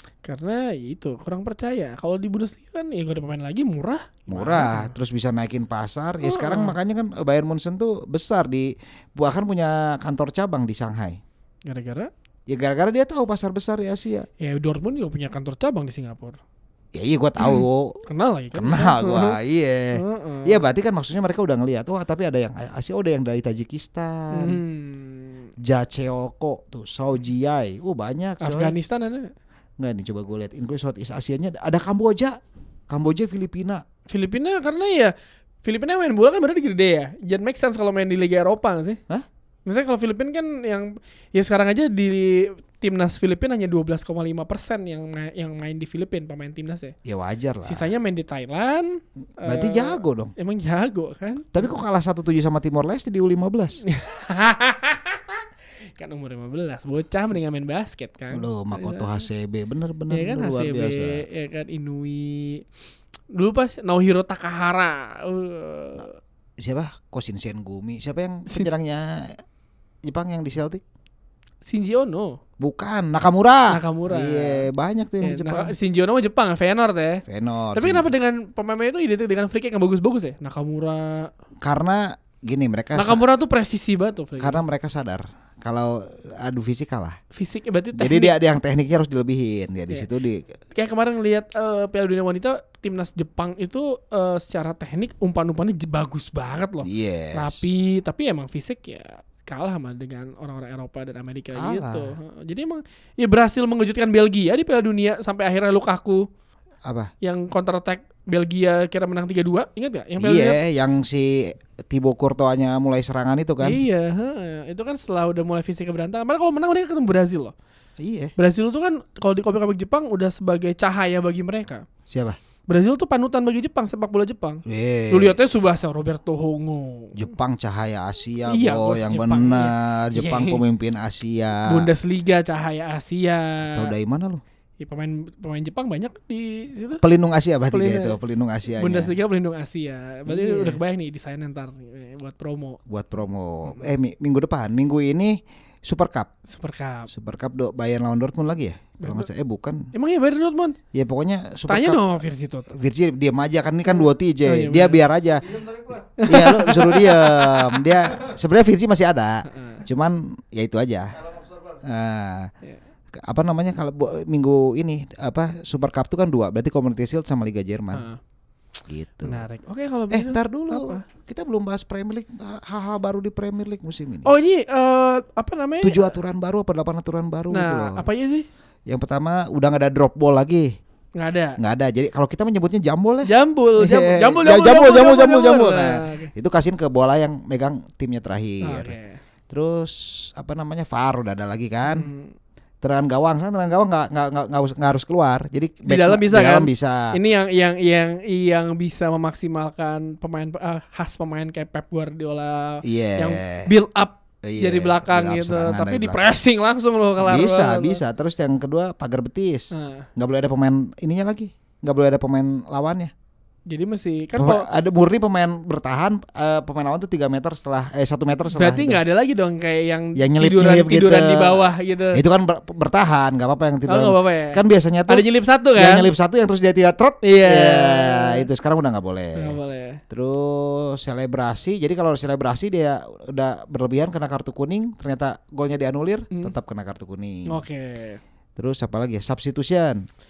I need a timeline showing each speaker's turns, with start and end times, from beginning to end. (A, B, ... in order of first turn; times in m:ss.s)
0:00.2-0:04.9 A
0:04.3-0:11.2 B
0:06.2-0:06.8 A
0:11.6-0:12.1 A
0:12.5-0:14.3 B
0:14.4-0:16.4 A
0:16.9-0:18.0 B
0:17.4-0:19.4 A
0:18.5-0:24.6 B
0:20.0-0:20.6 A
0:24.3-0:25.5 A
0:25.6-0:28.8 B
0:28.4-0:29.3 A
0:29.8-0:32.4 B
0:32.9-0:33.8 B
0:34.1-0:39.0 A
0:39.6-0:47.0 A
0:47.0-0:47.9 B
0:47.6-0:51.5 A
0:49.4-0:50.3 B
0:51.5-0:53.8 B
0:53.8-0:55.4 A
0:56.0-0:59.3 A
0:58.3-1:01.2 B
1:00.1-1:02.6 A
1:03.3-1:06.2 A
1:06.6-1:09.4 B
1:10.0-1:10.8 B
1:11.6-1:12.4 A
1:12.6-1:15.8 B
1:13.7-1:14.7 A
1:15.2-1:17.2 A
1:17.3-1:18.1 B
1:17.8-1:21.3 A
1:21.6-1:23.2 B
1:23.0-1:24.6 A
1:24.4-1:27.2 B
1:27.3-1:28.3 A
1:28.0-1:30.6 B
1:30.7-1:46.3 A
1:36.8-1:37.8 B
1:41.6-1:42.1 B
1:46.9-1:47.1 B
1:47.2-1:50.6 A
1:50.2-1:53.8 B
1:53.6-1:57.5 A
1:58.0-1:58.3 B
1:58.4-2:01.9 A
2:02.1-2:02.4 B
2:02.7-2:07.2 A
2:04.7-2:05.4 B
2:07.2-2:11.9 B
2:08.5-2:10.6 A
2:11.7-2:13.9 A
2:13.7-2:14.4 B
2:14.8-2:17.0 A
2:17.0-2:19.2 B
2:17.7-2:18.2 A
2:18.7-2:22.8 A
2:20.3-2:20.8 B
2:22.9-2:26.3 B
2:26.5-2:27.1 A
2:27.1-2:29.9 B
2:29.0-2:29.3 A
2:29.9-2:30.8 A
2:30.9-2:42.5 B
2:31.7-2:32.7 A
2:33.9-2:35.0 A
2:35.7-2:38.1 A
2:39.5-2:39.8 A
2:43.2-2:48.1 B
2:47.9-2:48.2 A
2:48.9-2:49.4 B
2:49.2-2:51.0 A
2:50.1-2:54.3 B
2:54.2-2:56.1 A
2:55.8-2:58.1 B
2:57.5-2:58.5 A
2:58.9-3:00.8 B
3:01.2-3:01.6 A
3:01.6-3:09.0 B
3:03.3-3:06.3 A
3:08.6-3:09.2 A
3:09.5-3:12.1 B
3:11.9-3:12.3 A
3:12.8-3:17.1 B
3:15.9-3:28.0 A
3:22.8-3:23.7 B
3:24.4-3:26.2 B
3:27.2-3:33.1 B
3:29.7-3:30.1 A
3:33.7-3:34.7 A
3:34.4-3:39.0 B
3:38.5-3:42.2 A
3:40.2-3:49.6 B
3:43.9-3:46.1 A
3:47.2-3:48.5 A
3:49.4-3:50.0 A
3:50.1-3:57.6 B
3:57.5-3:58.2 A
3:58.6-4:00.0 B